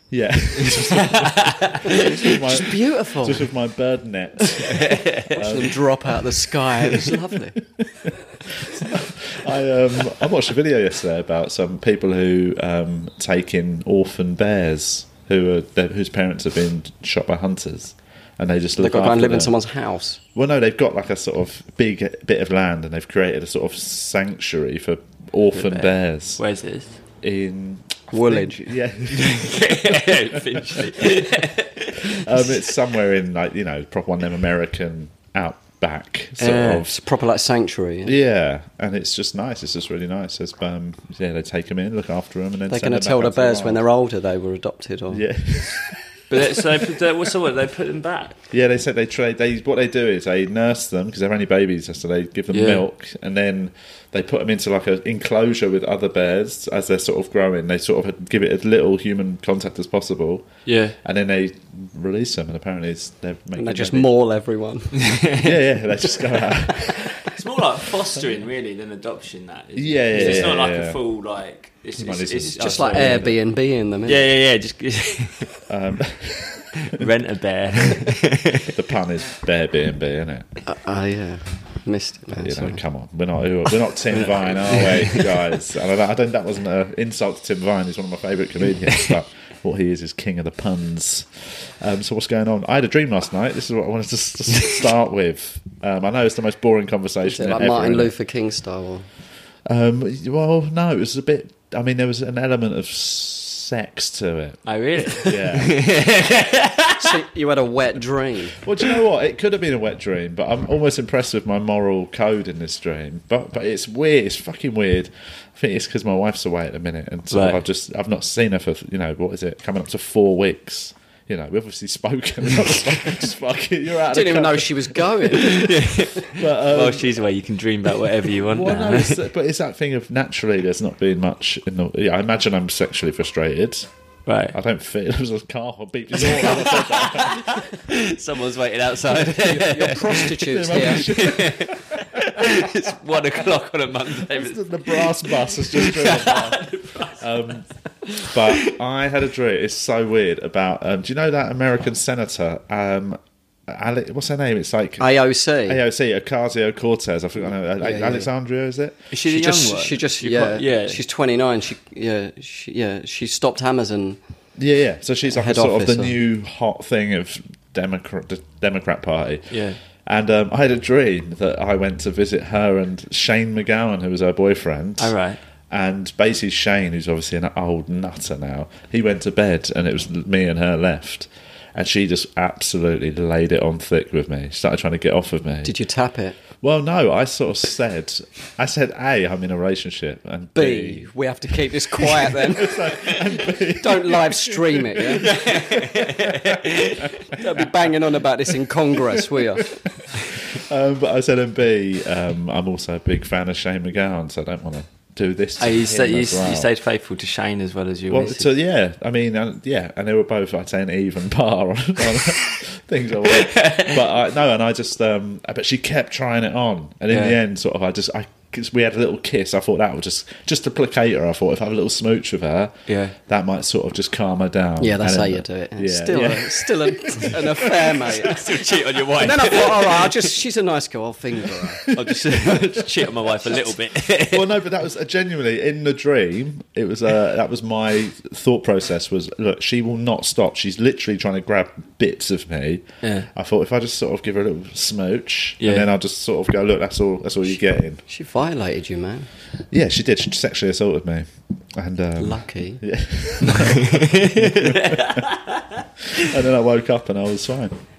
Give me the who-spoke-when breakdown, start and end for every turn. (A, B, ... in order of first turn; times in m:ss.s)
0:00.1-0:06.3 A
0:00.6-0:02.4 B
0:02.3-0:03.5 C
0:04.6-0:05.4 B
0:05.3-0:07.6 C
0:06.9-0:07.1 A
0:07.8-0:19.5 A
0:18.8-0:20.2 C
0:20.3-0:26.4 A
0:26.4-0:27.0 B
0:27.2-0:31.4 A
0:28.1-0:28.7 C
0:29.1-0:32.7 B
0:32.0-0:36.9 A
0:36.4-0:36.8 B
0:36.4-0:38.1 C
0:38.0-0:43.8 A
0:42.7-0:45.2 C
0:45.1-0:47.3 A
0:46.3-0:48.4 B
0:48.5-1:00.5 A
0:52.5-0:52.8 B
1:00.6-1:01.0 B
1:01.0-1:04.1 A
1:03.6-1:05.1 C
1:05.0-1:05.6 B
1:05.4-1:07.3 A
1:07.2-1:13.3 B
1:09.7-1:11.0 A
1:10.1-1:10.5 C
1:12.0-1:13.3 A
1:12.5-1:14.2 C
1:14.0-1:15.6 B
1:15.7-1:17.1 A
1:16.8-1:18.8 B
1:17.8-1:18.1 A
1:18.6-1:20.4 A
1:20.6-1:22.8 C
1:22.4-1:38.1 A
1:24.1-1:25.4 B
1:37.2-1:39.0 C
1:39.6-1:45.8 A
1:44.6-1:47.2 B
1:47.0-1:48.6 C
1:48.6-2:07.2 A
1:57.3-1:57.6 B
2:04.1-2:05.7 C
2:05.3-2:09.2 B
2:08.4-2:13.9 A
2:14.2-2:14.5 B
2:14.5-2:17.5 A
2:16.2-2:28.8 B
2:19.3-2:21.1 C
2:20.4-2:22.9 A
2:24.2-2:26.6 A
2:27.2-2:27.6 A
2:28.3-2:35.1 A
2:35.0-2:35.8 C
2:35.7-2:39.1 A
2:37.8-2:38.3 C
2:39.1-2:41.0 B
2:39.2-2:44.2 C
2:44.6-2:55.1 A
2:45.3-2:46.2 C
2:49.5-2:49.8 B
2:55.0-2:55.4 B
2:55.7-3:05.7 A
3:05.6-3:06.4 C
3:06.6-3:11.1 A
3:10.5-3:15.3 C
3:11.9-3:17.9 A
3:15.2-3:17.3 B
3:17.3-3:19.8 C
3:18.9-3:26.7 A
3:25.6-3:28.5 B
3:28.1-3:48.3 A
3:32.1-3:32.6 B
3:33.2-3:34.0 B
3:37.1-3:37.4 B
3:42.9-3:43.1 B
3:44.8-3:51.8 C
3:48.1-3:50.2 B
3:51.8-3:53.1 A
3:51.9-3:54.5 B
3:54.3-4:08.0 A
4:03.0-4:03.3 B
4:05.6-4:05.9 B
4:08.1-4:09.3 C
4:09.7-4:15.3 A
4:12.2-4:12.8 C
4:13.5-4:16.3 B
4:16.1-4:17.7 A